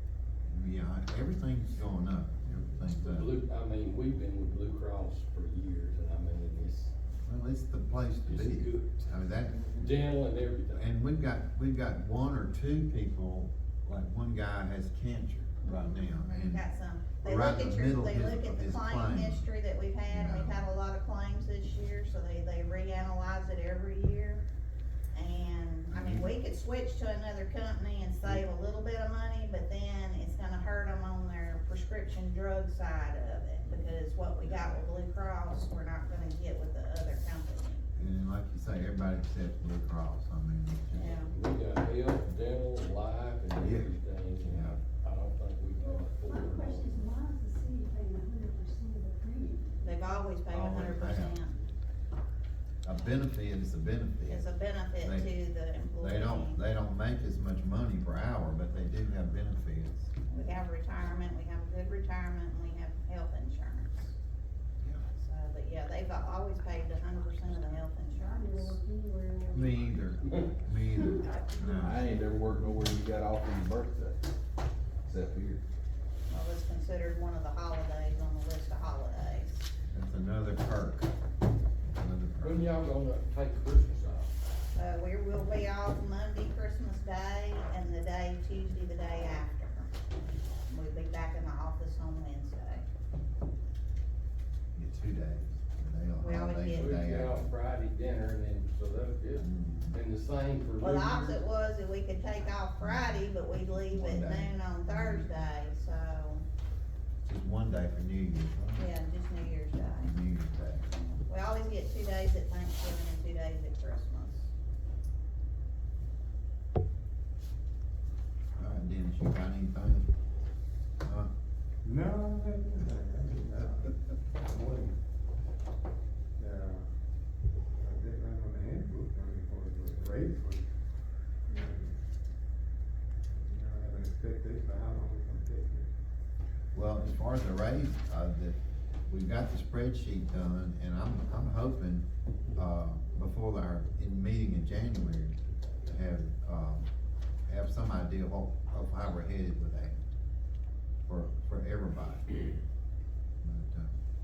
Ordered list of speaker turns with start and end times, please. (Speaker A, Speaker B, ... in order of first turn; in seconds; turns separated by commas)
Speaker A: 0.4-3.3, Speaker B: 3.0-6.9, Speaker A: 7.2-9.8, Speaker B: 8.2-9.0, Speaker B: 9.8-10.8, Speaker A: 10.7-16.6, Speaker C: 15.6-24.4, Speaker A: 17.2-19.5, Speaker A: 20.1-20.6, Speaker C: 25.1-37.8, Speaker A: 25.9-26.3, Speaker A: 38.0-41.3, Speaker C: 40.9-41.3, Speaker B: 41.1-47.1, Speaker A: 43.5-44.8, Speaker D: 45.8-50.2, Speaker C: 49.8-51.5, Speaker A: 50.5-51.4, Speaker A: 52.8-54.5, Speaker C: 54.2-56.6, Speaker A: 55.0-55.3, Speaker A: 56.0-60.1, Speaker C: 60.3-64.1, Speaker C: 65.2-68.8, Speaker D: 68.1-70.3, Speaker A: 69.5-72.1, Speaker D: 70.9-71.7, Speaker E: 71.8-74.3, Speaker E: 75.0-75.6, Speaker C: 76.3-79.7, Speaker A: 79.9-81.1, Speaker A: 81.9-82.6, Speaker B: 82.4-84.3, Speaker C: 84.7-89.9, Speaker C: 90.7-92.8, Speaker A: 94.7-97.5, Speaker C: 96.2-96.9, Speaker B: 96.7-101.4, Speaker A: 99.4-100.0, Speaker C: 100.8-106.4, Speaker A: 102.8-105.3, Speaker A: 107.2-108.8, Speaker C: 108.7-110.1, Speaker A: 110.0-110.9, Speaker C: 110.9-114.5, Speaker A: 118.6-120.1, Speaker A: 121.0-121.3, Speaker F: 121.8-125.0, Speaker F: 126.4-126.8, Speaker F: 127.8-130.6, Speaker D: 131.5-131.9, Speaker F: 133.3-135.9, Speaker A: 136.7-138.6, Speaker A: 139.1-146.9, Speaker A: 147.5-150.0, Speaker A: 151.1-152.4, Speaker A: 153.4-153.9